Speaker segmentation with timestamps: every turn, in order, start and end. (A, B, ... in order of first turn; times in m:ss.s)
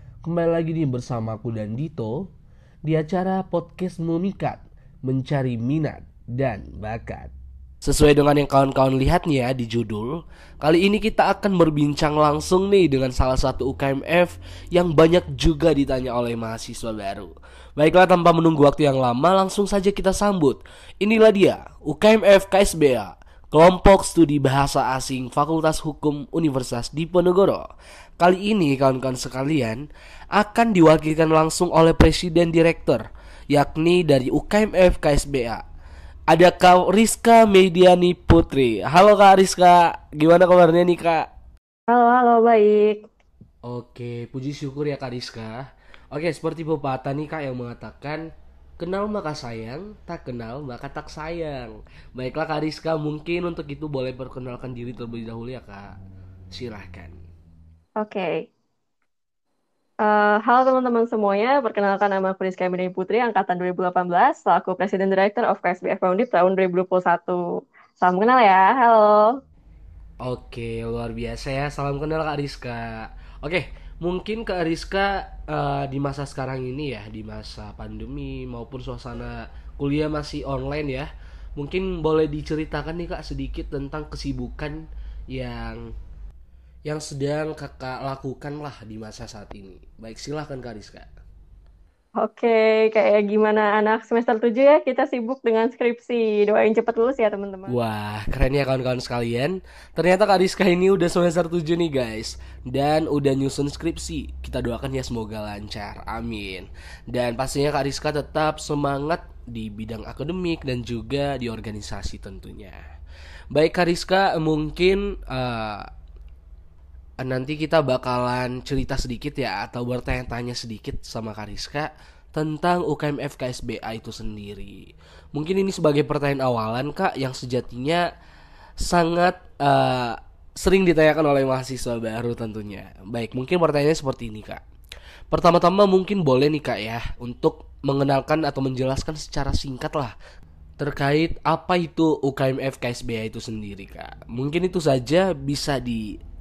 0:00.2-0:02.3 A
0:02.8-0:07.3 A
0:07.8-0:27.7 A
0:28.2-0:29.8 A
0:30.3-0:35.6 A
0:36.3-0:41.3 A
0:41.9-0:43.1 B
0:43.6-0:48.3 A
0:48.8-0:55.9 A
0:56.5-0:57.2 A
0:58.0-0:58.5 B
1:00.0-1:07.4 B
1:08.0-1:09.4 B
1:10.2-1:25.8 A
1:26.8-1:31.1 A
1:32.2-1:37.8 B
1:37.7-1:52.8 A
1:53.5-1:55.9 A
1:57.2-2:08.0 A
2:08.8-2:14.6 A
2:15.3-2:20.1 A
2:20.8-2:26.0 A